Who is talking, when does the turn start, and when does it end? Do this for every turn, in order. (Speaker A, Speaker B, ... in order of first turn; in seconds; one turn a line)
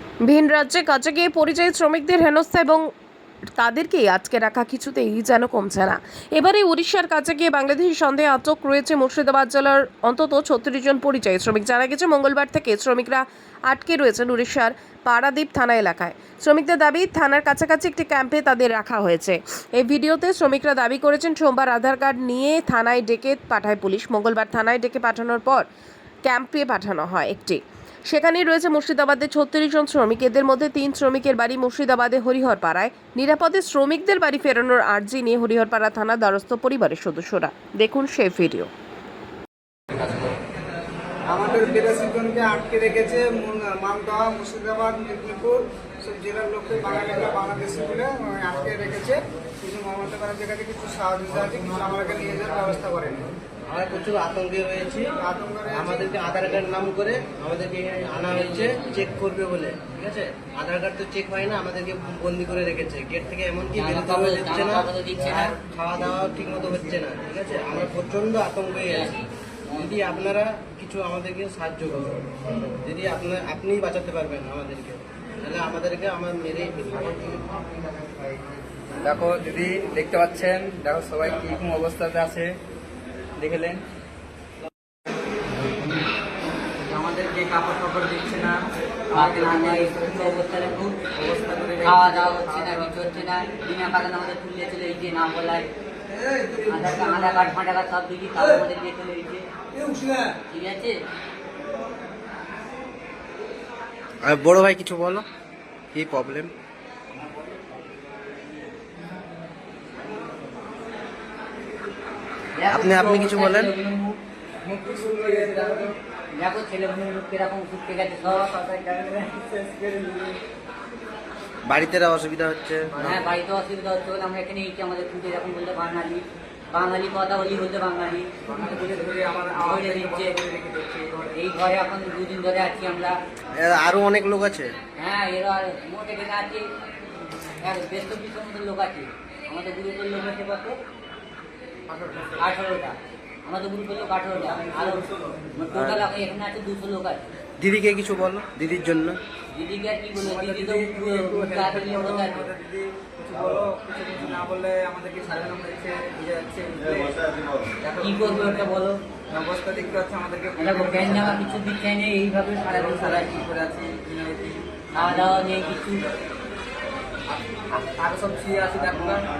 Speaker A: 0.2-2.9
Speaker A: 3.5-25.7
Speaker A: 26.2-38.7
Speaker B: 41.3-53.3
Speaker C: 53.7-55.1
Speaker B: 55.2-56.1
Speaker C: 55.7-64.9
Speaker D: 58.4-58.8
Speaker D: 63.7-65.6
Speaker C: 65.4-69.1
Speaker D: 68.9-69.3
Speaker C: 69.7-72.2
Speaker C: 72.8-77.7
Speaker E: 79.0-82.5
Speaker E: 83.4-83.8
Speaker E: 87.0-90.4
Speaker D: 89.1-91.0
Speaker E: 91.0-92.8
Speaker D: 91.8-95.7
Speaker D: 96.6-99.5
Speaker D: 100.5-101.0
Speaker C: 104.2-105.2
Speaker C: 105.9-106.5
Speaker D: 112.5-114.2
Speaker C: 112.7-113.7
Speaker E: 114.6-115.9
Speaker D: 116.3-120.4
Speaker C: 121.7-123.2
Speaker D: 123.0-130.4
Speaker E: 128.5-131.3
Speaker D: 131.3-133.2
Speaker C: 133.5-134.7
Speaker D: 135.0-136.7
Speaker D: 137.6-140.8
Speaker D: 142.4-147.2
Speaker C: 145.7-146.0
Speaker C: 147.6-149.2
Speaker D: 149.5-152.5
Speaker E: 150.2-157.2
Speaker E: 157.8-158.7
Speaker D: 158.0-159.0
Speaker E: 159.3-161.3
Speaker D: 160.6-163.5
Speaker E: 162.7-165.3
Speaker D: 164.9-166.1
Speaker E: 167.3-169.2